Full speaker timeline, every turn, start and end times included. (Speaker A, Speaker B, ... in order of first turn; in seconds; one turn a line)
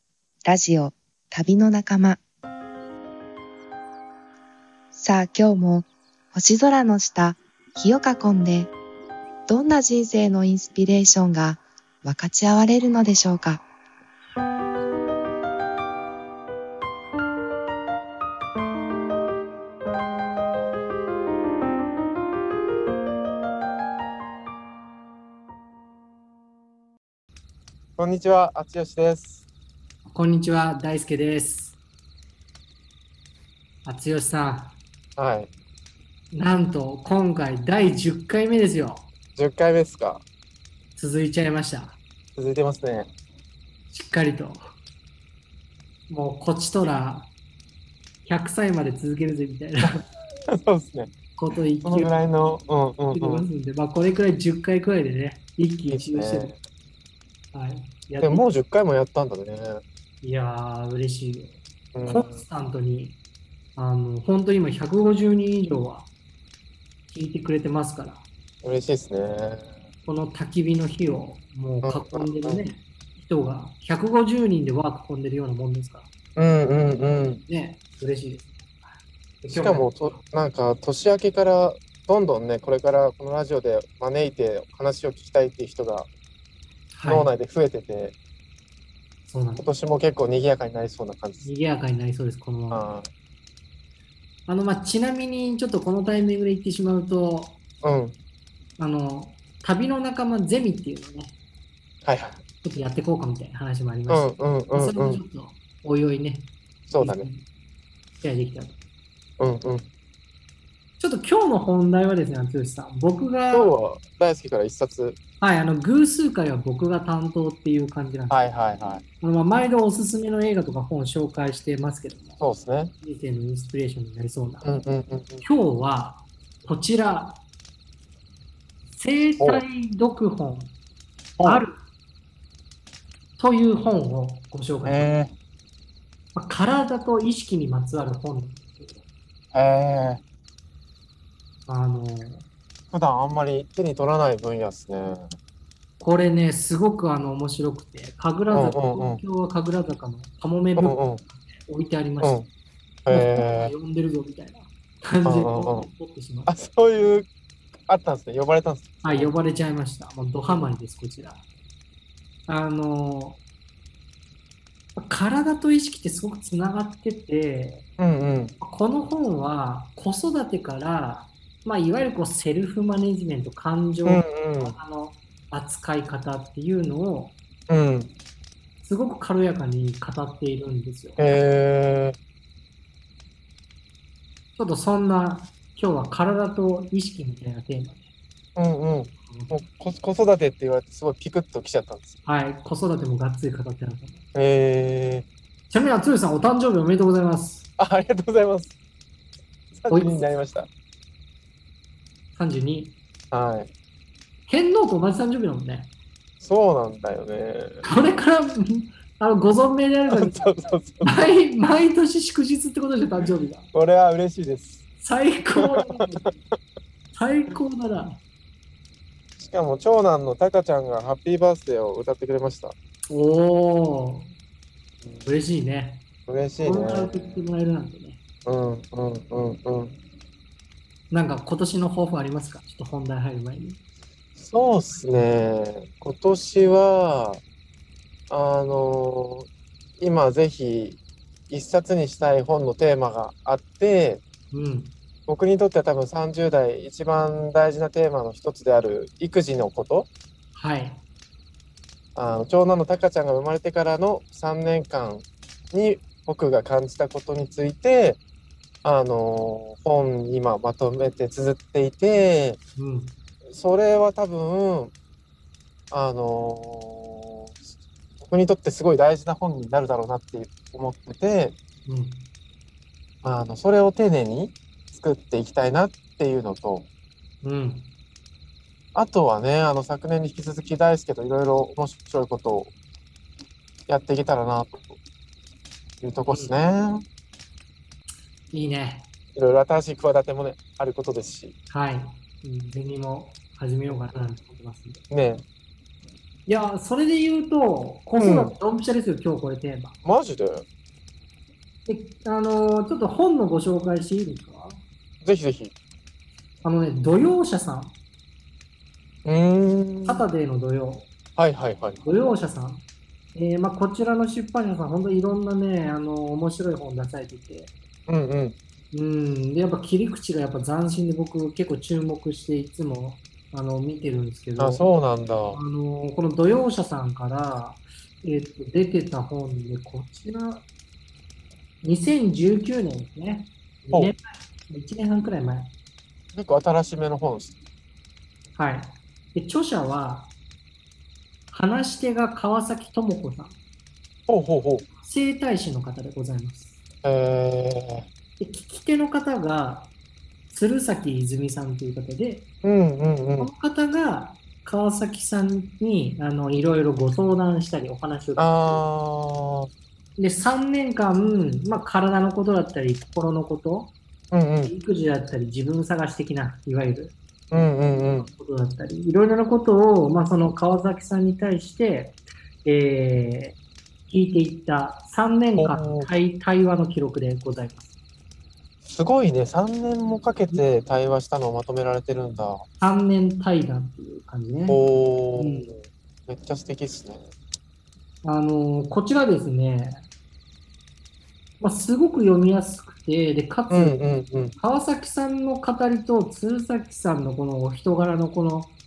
Speaker A: 0.4-2.2
Speaker A: 4.9-8.7
Speaker A: 9.5-13.6
Speaker B: 28.0-29.4
Speaker C: 30.1-31.8
Speaker C: 33.8-34.8
Speaker B: 35.2-35.5
Speaker C: 36.3-39.1
Speaker B: 39.4-40.2
Speaker C: 41.0-42.0
Speaker B: 42.4-43.1
Speaker C: 43.9-44.6
Speaker C: 46.1-47.3
Speaker C: 48.2-50.0
Speaker B: 50.5-51.1
Speaker C: 51.4-52.1
Speaker B: 51.8-53.5
Speaker C: 53.1-56.5
Speaker B: 55.9-56.5
Speaker C: 57.5-58.5
Speaker B: 58.2-59.8
Speaker C: 60.2-63.2
Speaker B: 61.9-62.4
Speaker C: 63.8-66.1
Speaker C: 67.1-68.2
Speaker B: 68.6-69.7
Speaker C: 70.0-76.1
Speaker B: 71.8-72.7
Speaker B: 76.3-77.4
Speaker C: 77.5-78.8
Speaker C: 79.4-80.2
Speaker B: 79.5-86.1
Speaker C: 86.9-87.3
Speaker B: 87.0-88.2
Speaker C: 89.2-89.7
Speaker B: 89.6-91.5
Speaker C: 91.4-92.9
Speaker B: 92.7-93.1
Speaker C: 94.5-97.6
Speaker B: 97.8-98.2
Speaker C: 98.8-101.3
Speaker B: 102.0-102.4
Speaker C: 102.6-107.5
Speaker B: 104.1-105.2
Speaker B: 106.9-107.3
Speaker C: 108.1-108.8
Speaker B: 109.4-109.8
Speaker C: 111.0-113.7
Speaker B: 113.5-115.2
Speaker C: 115.4-118.5
Speaker B: 118.3-119.0
Speaker C: 119.2-122.4
Speaker B: 122.4-122.9
Speaker C: 123.0-124.7
Speaker B: 124.6-125.4
Speaker C: 125.4-127.4
Speaker C: 128.9-130.7
Speaker B: 129.4-129.6
Speaker B: 131.4-131.6
Speaker C: 131.4-131.8
Speaker C: 133.4-135.1
Speaker B: 134.8-135.3
Speaker C: 136.3-139.0
Speaker B: 139.5-140.2
Speaker C: 141.7-142.4
Speaker B: 142.9-145.3
Speaker C: 146.0-152.4
Speaker B: 148.5-149.2
Speaker B: 150.8-151.2
Speaker B: 152.2-152.5
Speaker B: 153.0-153.7
Speaker C: 153.1-156.6
Speaker B: 155.2-155.9
Speaker B: 156.5-157.3
Speaker B: 157.8-159.3
Speaker C: 159.0-161.4
Speaker C: 162.5-163.4
Speaker C: 164.9-167.8
Speaker B: 168.0-168.6
Speaker C: 168.6-177.4
Speaker B: 174.1-174.8
Speaker B: 177.7-178.1
Speaker C: 178.8-181.2
Speaker B: 181.2-182.2
Speaker C: 184.6-188.1
Speaker B: 188.6-192.1
Speaker C: 189.2-189.6
Speaker C: 192.2-194.2
Speaker B: 194.3-195.2
Speaker C: 195.7-197.7
Speaker B: 197.8-198.7
Speaker B: 199.7-200.7
Speaker C: 199.9-200.2
Speaker C: 202.3-202.9
Speaker B: 203.3-203.7
Speaker C: 204.5-205.9
Speaker B: 206.4-207.9
Speaker C: 207.8-210.5
Speaker B: 210.1-211.3
Speaker C: 211.0-213.7
Speaker B: 213.7-214.8
Speaker C: 215.0-216.3
Speaker B: 215.6-215.9
Speaker C: 217.1-218.2
Speaker B: 219.4-222.7
Speaker C: 223.1-224.3
Speaker C: 225.2-226.0
Speaker B: 226.3-227.4
Speaker C: 226.6-228.2
Speaker B: 228.4-230.0
Speaker C: 231.1-233.8
Speaker B: 234.3-237.4
Speaker B: 238.3-241.0
Speaker B: 241.5-244.2
Speaker C: 244.5-244.9
Speaker B: 245.3-250.1
Speaker C: 250.5-251.0
Speaker B: 252.1-258.2
Speaker B: 258.8-262.6
Speaker C: 262.8-263.2
Speaker B: 263.5-264.9
Speaker B: 265.9-267.6
Speaker B: 268.2-271.6
Speaker C: 271.9-272.3
Speaker B: 273.2-276.9
Speaker C: 277.4-277.9
Speaker B: 278.9-282.7
Speaker B: 283.9-284.9
Speaker B: 286.0-287.0
Speaker C: 286.3-286.5
Speaker C: 288.5-289.1
Speaker B: 289.4-291.5
Speaker C: 291.7-295.0
Speaker B: 295.1-295.4
Speaker C: 296.5-300.0
Speaker B: 298.1-298.5
Speaker B: 300.0-300.6
Speaker C: 301.9-304.8
Speaker B: 305.2-305.7
Speaker C: 306.6-307.9
Speaker B: 309.2-310.2
Speaker C: 310.0-311.1
Speaker B: 311.4-312.0
Speaker C: 312.0-312.8
Speaker C: 313.3-317.7
Speaker B: 318.1-318.6
Speaker C: 318.9-324.9
Speaker B: 324.6-325.6
Speaker C: 325.5-330.6
Speaker C: 331.8-335.7
Speaker B: 336.3-337.6
Speaker C: 338.6-340.3
Speaker C: 341.5-343.6
Speaker B: 344.3-344.9
Speaker C: 345.0-346.8
Speaker B: 347.0-348.1
Speaker C: 348.4-349.9
Speaker C: 350.5-352.4
Speaker B: 352.6-353.5
Speaker C: 353.4-358.8
Speaker B: 358.4-359.7
Speaker C: 360.2-363.9
Speaker B: 364.3-364.7
Speaker C: 364.6-367.1
Speaker B: 367.5-368.3
Speaker C: 368.1-373.6
Speaker C: 374.1-377.9
Speaker B: 375.6-376.1
Speaker B: 378.8-382.6
Speaker C: 382.8-384.8
Speaker B: 384.7-387.2
Speaker C: 385.4-385.7
Speaker C: 388.2-390.0
Speaker C: 391.6-394.0
Speaker B: 393.7-394.6
Speaker C: 394.6-398.8